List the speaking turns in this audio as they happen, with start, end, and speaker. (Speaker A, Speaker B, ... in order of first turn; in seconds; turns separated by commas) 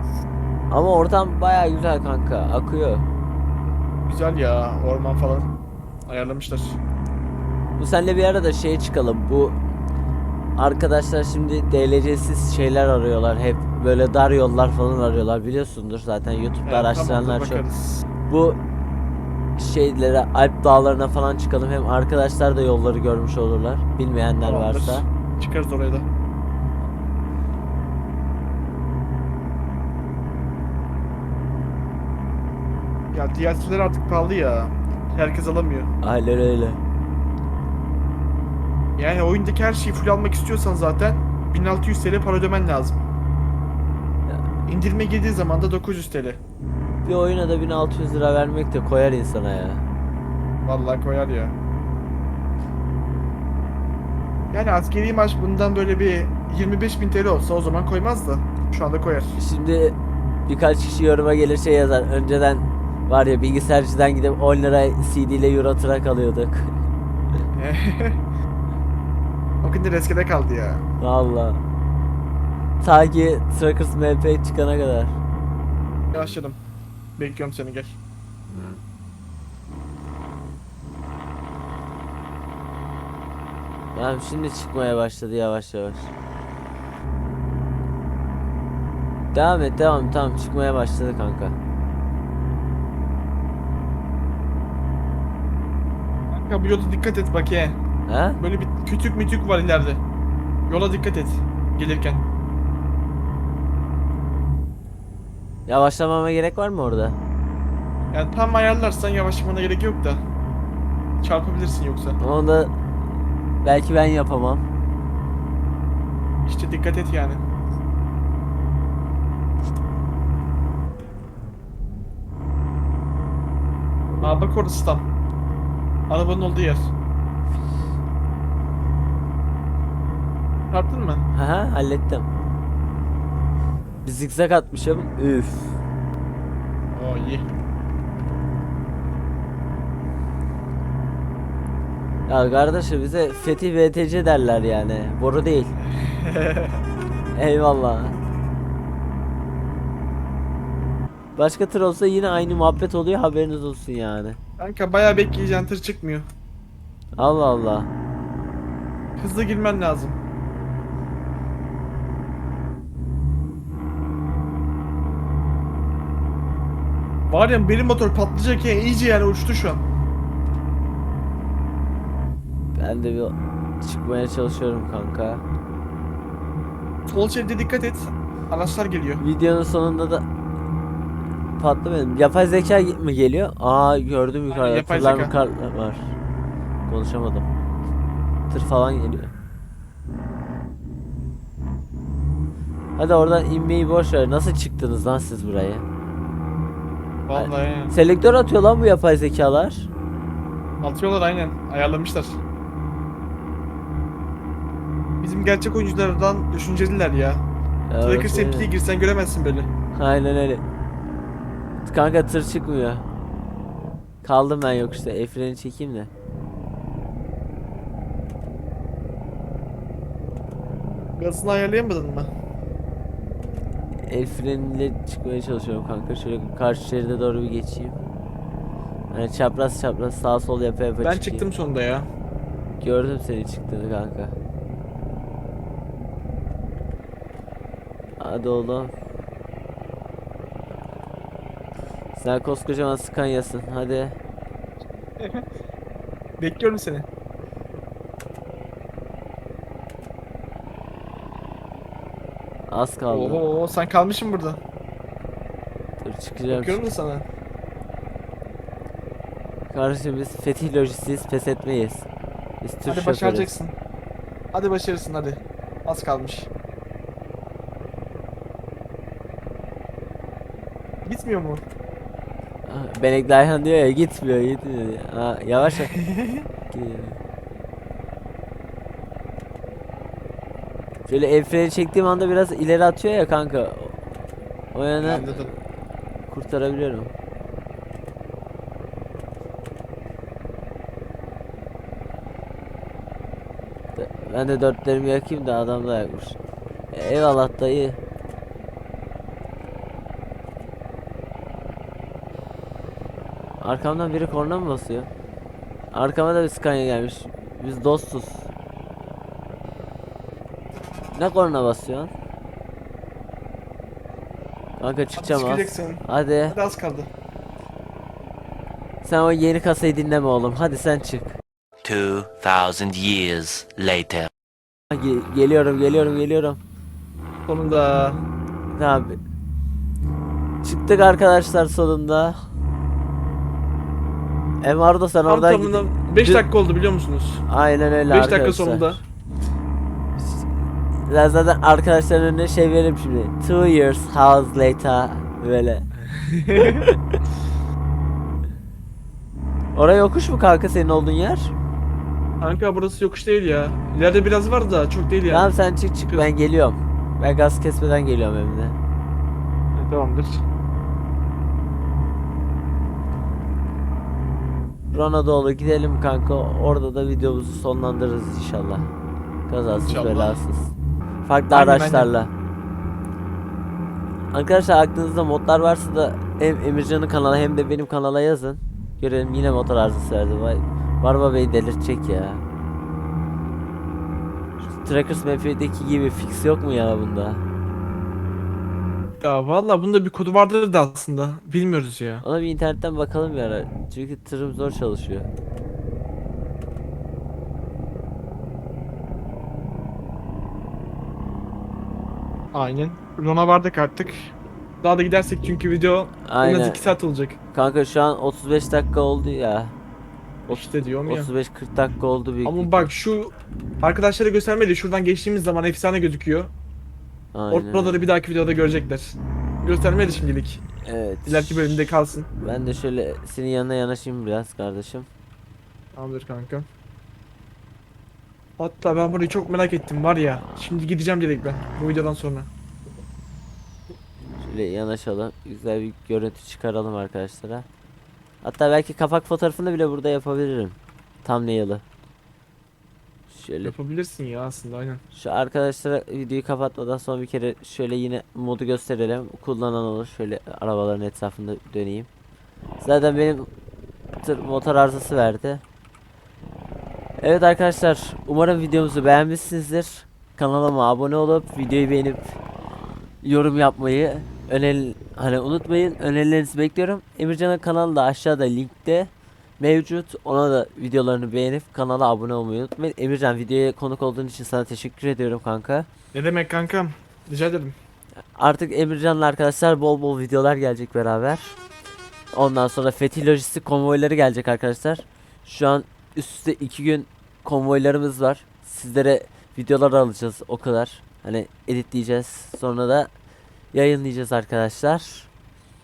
Speaker A: 0.7-3.1, Speaker B: 4.0-5.5, Speaker B: 6.1-6.8, Speaker A: 7.8-9.6, Speaker A: 10.6-17.6, Speaker B: 16.6-18.1, Speaker A: 18.3-18.6, Speaker A: 19.6-25.1, Speaker B: 24.4-26.1, Speaker B: 33.1-35.9, Speaker A: 36.0-36.8, Speaker B: 39.0-43.0, Speaker B: 44.7-46.4, Speaker A: 47.0-49.9, Speaker B: 50.6-51.5, Speaker B: 54.5-59.4, Speaker A: 59.4-66.8, Speaker B: 67.5-68.2, Speaker B: 69.6-70.8, Speaker A: 71.0-71.6, Speaker A: 72.8-75.2, Speaker B: 76.1-76.6, Speaker B: 77.2-78.0, Speaker A: 84.0-86.1, Speaker A: 89.3-91.6, Speaker B: 96.3-97.8, Speaker A: 98.1-98.4, Speaker B: 98.4-100.0, Speaker B: 100.7-102.3, Speaker A: 105.7-107.2, Speaker B: 108.1-110.2, Speaker B: 111.2-112.2, Speaker A: 112.2-112.7, Speaker A: 113.6-114.7, Speaker B: 116.5-117.4, Speaker B: 124.2-125.1, Speaker B: 126.1-126.9, Speaker B: 130.7-131.2, Speaker A: 131.3-132.3, Speaker A: 134.0-135.8, Speaker B: 136.9-137.5, Speaker A: 142.3-145.7, Speaker B: 145.9-146.8, Speaker A: 147.3-148.2, Speaker A: 151.4-154.4, Speaker B: 154.6-156.3, Speaker A: 157.2-157.9, Speaker B: 159.2-160.2, Speaker B: 167.3-169.8, Speaker A: 172.8-175.4, Speaker B: 177.1-179.2, Speaker A: 179.2-180.2, Speaker A: 181.6-186.1, Speaker B: 184.5-185.3, Speaker A: 186.9-187.5, Speaker A: 188.5-189.3, Speaker A: 193.0-195.9, Speaker B: 197.3-197.9, Speaker A: 197.3-199.9, Speaker B: 200.8-202.4, Speaker B: 205.2-207.4, Speaker A: 207.9-208.7, Speaker B: 208.0-209.7, Speaker A: 209.9-210.6, Speaker A: 211.8-213.1, Speaker A: 214.2-216.1, Speaker B: 221.2-222.3, Speaker A: 224.1-228.0, Speaker A: 229.1-231.5, Speaker B: 231.0-232.1, Speaker A: 232.8-234.4, Speaker A: 238.2-238.9, Speaker A: 242.2-244.2, Speaker B: 245.2-245.4, Speaker B: 246.4-247.1, Speaker A: 252.7-253.4, Speaker B: 253.1-254.6, Speaker A: 256.0-256.8, Speaker B: 256.5-257.2, Speaker A: 259.7-262.1, Speaker A: 262.6-263.5, Speaker B: 262.9-263.8, Speaker B: 264.5-266.5, Speaker B: 271.1-271.6, Speaker A: 272.7-275.9, Speaker B: 275.9-276.4, Speaker A: 276.7-277.2, Speaker A: 281.1-284.0, Speaker A: 284.7-285.4, Speaker B: 285.0-285.5, Speaker A: 286.2-287.1, Speaker A: 294.0-296.4, Speaker A: 296.9-298.0, Speaker A: 303.6-305.1, Speaker A: 305.9-308.5, Speaker A: 311.1-312.1, Speaker A: 314.8-316.6, Speaker B: 315.2-317.1, Speaker A: 319.0-321.4, Speaker C: 321.8-324.3, Speaker A: 324.9-326.6, Speaker B: 327.5-328.2, Speaker A: 328.7-329.2, Speaker A: 330.6-332.4, Speaker A: 334.6-336.5, Speaker B: 335.3-337.4, Speaker A: 337.5-338.9, Speaker B: 338.1-339.0, Speaker A: 340.2-345.9, Speaker B: 346.1-346.9, Speaker A: 346.6-347.0, Speaker A: 349.8-351.5, Speaker B: 352.4-355.5, Speaker A: 355.3-358.8, Speaker B: 359.8-360.4, Speaker A: 364.9-368.9, Speaker A: 369.5-370.7, Speaker B: 369.7-370.4, Speaker A: 371.2-372.3, Speaker B: 371.5-372.1, Speaker A: 374.3-382.4, Speaker A: 384.6-387.4, Speaker B: 389.2-392.2, Speaker A: 392.2-395.3, Speaker B: 402.5-407.4, Speaker A: 406.3-406.9, Speaker A: 407.5-409.7, Speaker B: 410.5-411.3, Speaker A: 410.5-412.9, Speaker B: 412.4-416.5, Speaker A: 417.3-418.1, Speaker B: 417.5-420.6, Speaker A: 420.8-421.9, Speaker B: 421.3-422.3, Speaker A: 422.4-425.1, Speaker B: 425.9-426.7, Speaker B: 428.6-432.5, Speaker A: 434.4-437.7, Speaker A: 438.4-441.8, Speaker A: 443.3-443.7, Speaker B: 443.6-445.0, Speaker A: 445.1-452.1, Speaker A: 452.8-453.5, Speaker A: 454.2-455.6, Speaker A: 457.2-462.4, Speaker A: 463.2-475.9, Speaker B: 476.1-477.8, Speaker A: 478.4-481.5, Speaker A: 482.3-493.1, Speaker A: 493.7-495.3